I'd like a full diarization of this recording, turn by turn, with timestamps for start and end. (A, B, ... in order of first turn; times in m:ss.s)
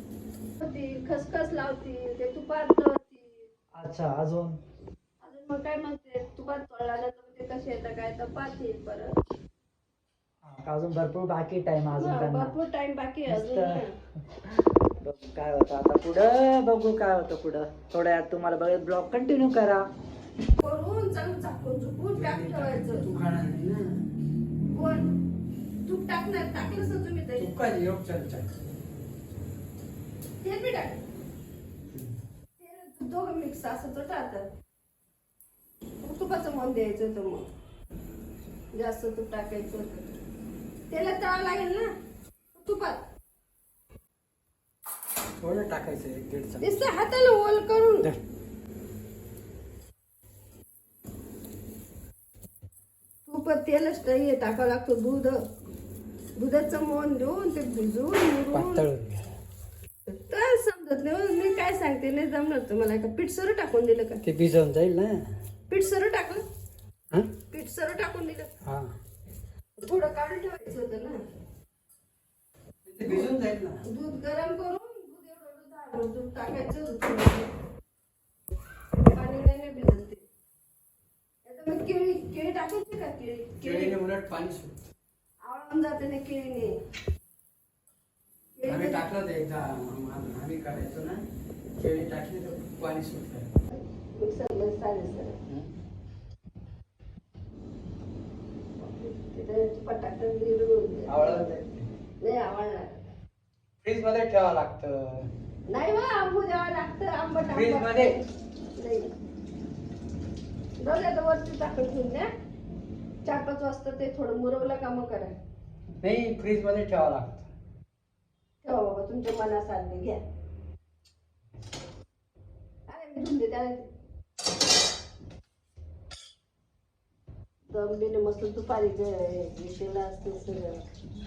0:00.6-0:03.5 A
0:03.8-0:04.6 B
0:05.2-0:09.2 A
0:10.4-0:12.6 B
0:11.9-0:14.0 A
0:13.3-0:19.8 B
0:20.6-0:23.0 A
0:22.1-0:24.0 C
0:24.6-0:25.1 A
0:25.8-0:27.5 A
0:27.4-0:28.5 C
0:30.4-0:31.0 A
0:31.9-0:32.2 C
0:32.6-0:34.5 A
0:36.0-0:37.5 A
0:38.7-0:40.2 A
0:40.9-0:41.9 A
0:42.5-0:43.0 A
0:45.4-0:46.7 C
0:46.6-0:48.1 A
0:53.2-0:55.4 A
0:56.4-0:58.8 A
0:58.5-0:59.3 C
1:00.1-1:04.2 A
1:04.2-1:05.2 C
1:05.7-1:06.4 A
1:07.5-1:08.5 A
1:08.6-1:08.9 C
1:09.8-1:11.2 A
1:12.8-1:13.8 C
1:13.8-1:17.5 A
1:19.1-1:20.2 A
1:21.4-1:24.0 A
1:23.6-1:24.7 C
1:25.4-1:26.8 A
1:28.6-1:29.0 A
1:28.7-1:31.2 C
1:31.8-1:33.5 C
1:33.7-1:35.4 A
1:38.8-1:41.5 A
1:41.1-1:41.9 C
1:42.2-1:43.1 A
1:43.8-1:45.3 C
1:45.7-1:48.2 A
1:47.5-1:48.2 C
1:48.8-1:49.1 A
1:50.8-1:52.3 A
1:53.2-1:55.3 A
1:56.0-1:57.5 C
1:58.6-2:00.2 A
2:02.9-2:03.9 A
2:07.7-2:10.8 A